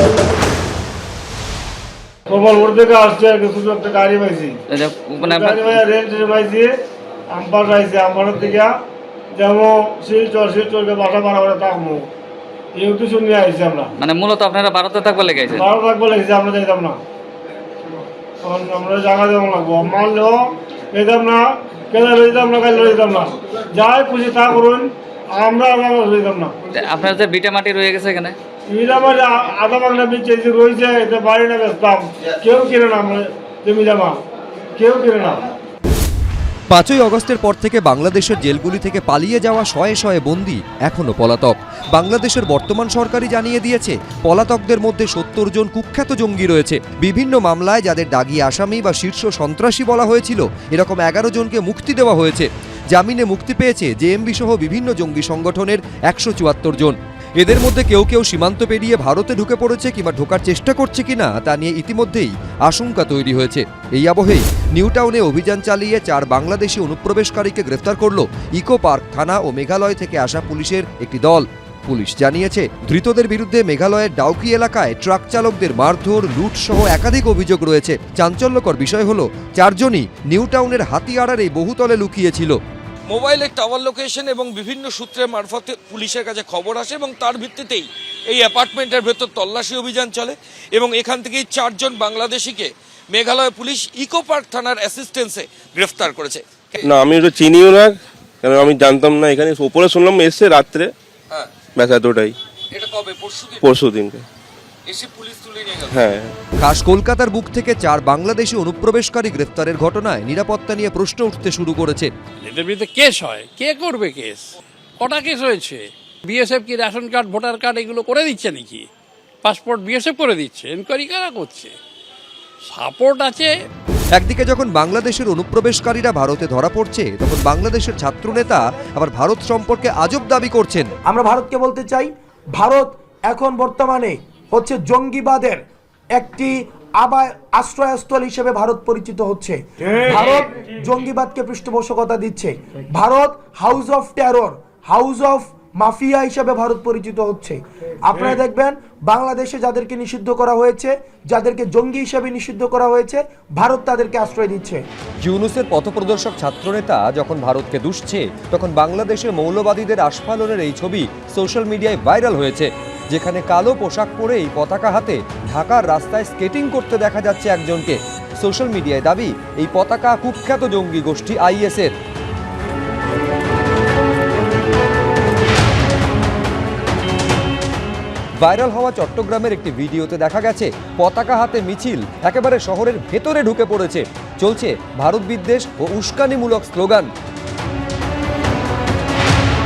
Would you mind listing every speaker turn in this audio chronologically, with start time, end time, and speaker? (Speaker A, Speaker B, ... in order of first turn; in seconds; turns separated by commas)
Speaker A: 2.3-4.5, Speaker B: 4.7-5.9, Speaker A: 5.3-6.7, Speaker A: 7.3-8.7, Speaker A: 9.4-12.0, Speaker A: 12.8-13.8, Speaker B: 14.0-15.7, Speaker A: 15.6-17.0, Speaker A: 18.4-20.4, Speaker A: 20.9-26.5, Speaker B: 26.8-28.3, Speaker A: 28.7-34.1, Speaker A: 34.8-35.4, Speaker C: 36.7-82.6, Speaker D: 83.1-96.8, Speaker E: 96.8-100.9, Speaker E: 101.6-102.3, Speaker D: 102.7-103.6, Speaker E: 103.6-104.2, Speaker D: 104.9-105.9, Speaker E: 105.9-106.3, Speaker C: 106.6-112.1, Speaker F: 112.4-118.9, Speaker F: 119.4-121.7, Speaker F: 122.6-123.5, Speaker C: 124.1-130.9, Speaker G: 131.0-135.6, Speaker G: 136.1-154.8, Speaker C: 155.2-171.9, Speaker C: 178.4-187.1